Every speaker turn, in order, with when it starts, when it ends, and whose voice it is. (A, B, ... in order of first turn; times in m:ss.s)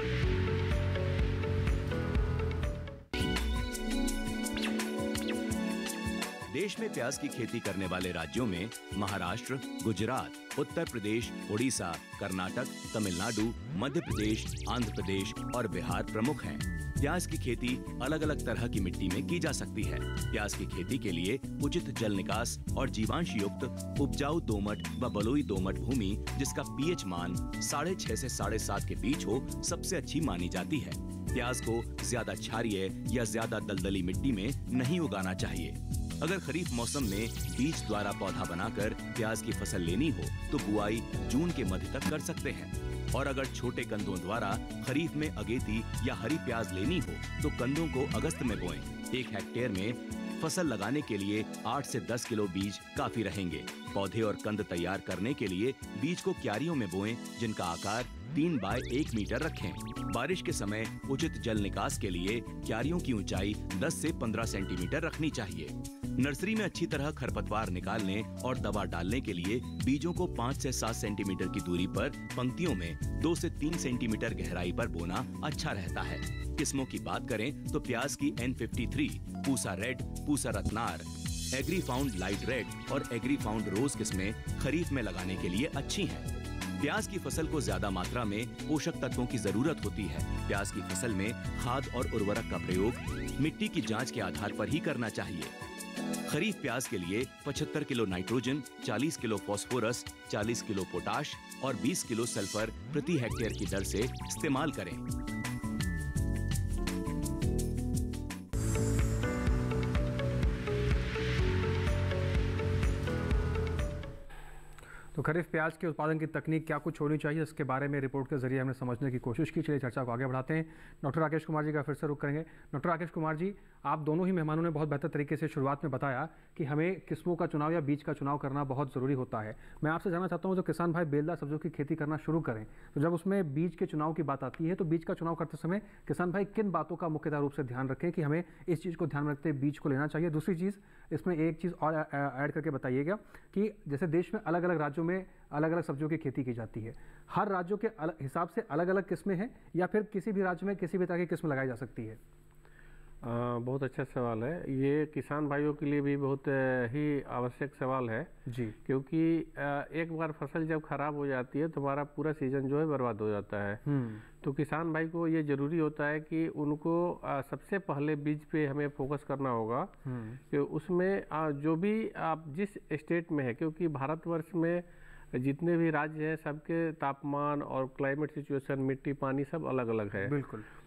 0:06.5-1:35.5 A
1:36.2-1:45.0 A
1:55.1-2:32.2 B
2:33.2-2:38.3 C
2:38.4-2:38.8 B
2:38.8-2:43.8 C
2:43.8-2:44.2 B
2:44.4-2:49.9 C
2:50.0-2:50.4 B
2:50.5-3:00.4 C
3:00.2-3:00.6 B